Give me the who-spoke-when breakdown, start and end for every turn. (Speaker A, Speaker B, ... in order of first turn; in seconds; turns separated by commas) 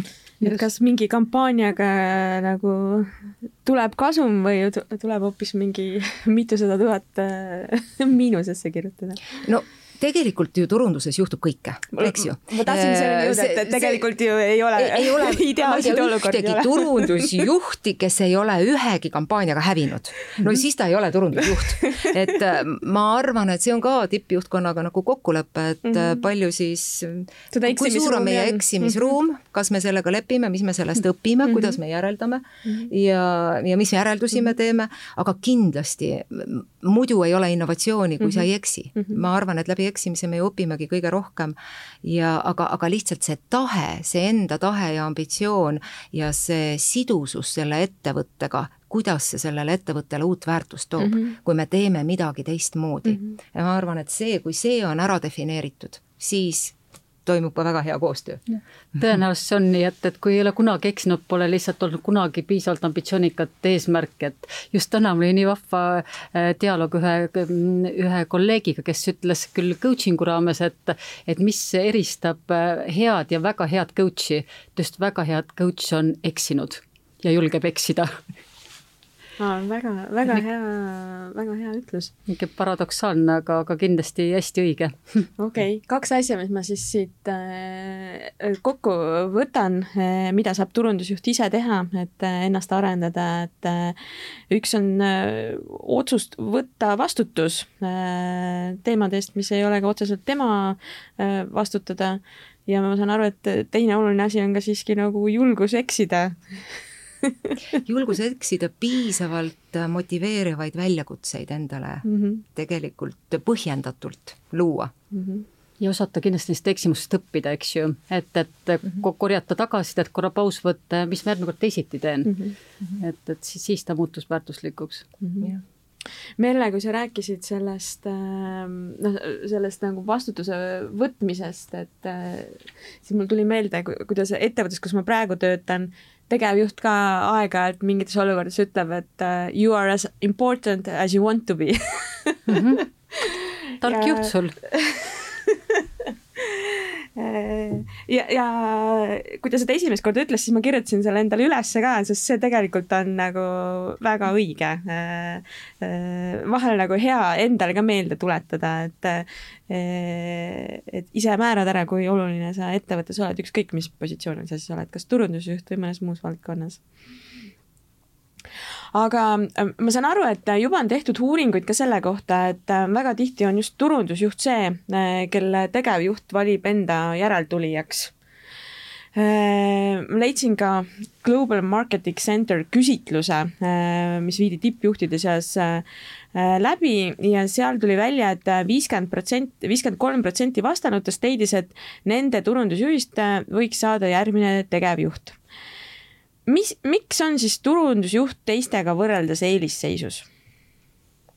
Speaker A: 0.4-9.4, Speaker B: 9.4-14.1, Speaker A: 11.9-17.5, Speaker B: 14.8-58.4, Speaker A: 21.5-22.1, Speaker A: 25.9-26.2, Speaker A: 27.5-29.1, Speaker A: 31.5-31.8, Speaker A: 38.2-39.2, Speaker A: 51.0-51.4, Speaker C: 58.5-78.2, Speaker A: 79.4-82.1, Speaker C: 82.3-85.3, Speaker A: 85.4-94.0, Speaker A: 94.5-106.6, Speaker A: 107.2-107.8, Speaker B: 107.8-114.9, Speaker A: 112.0-112.4, Speaker A: 115.1-115.5, Speaker C: 115.8-122.4, Speaker A: 122.2-122.5, Speaker C: 123.0-125.1, Speaker A: 125.2-125.5, Speaker A: 126.4-166.8, Speaker C: 142.5-142.9, Speaker C: 143.8-144.6, Speaker A: 168.9-178.1, Speaker A: 179.2-195.4, Speaker A: 196.5-200.3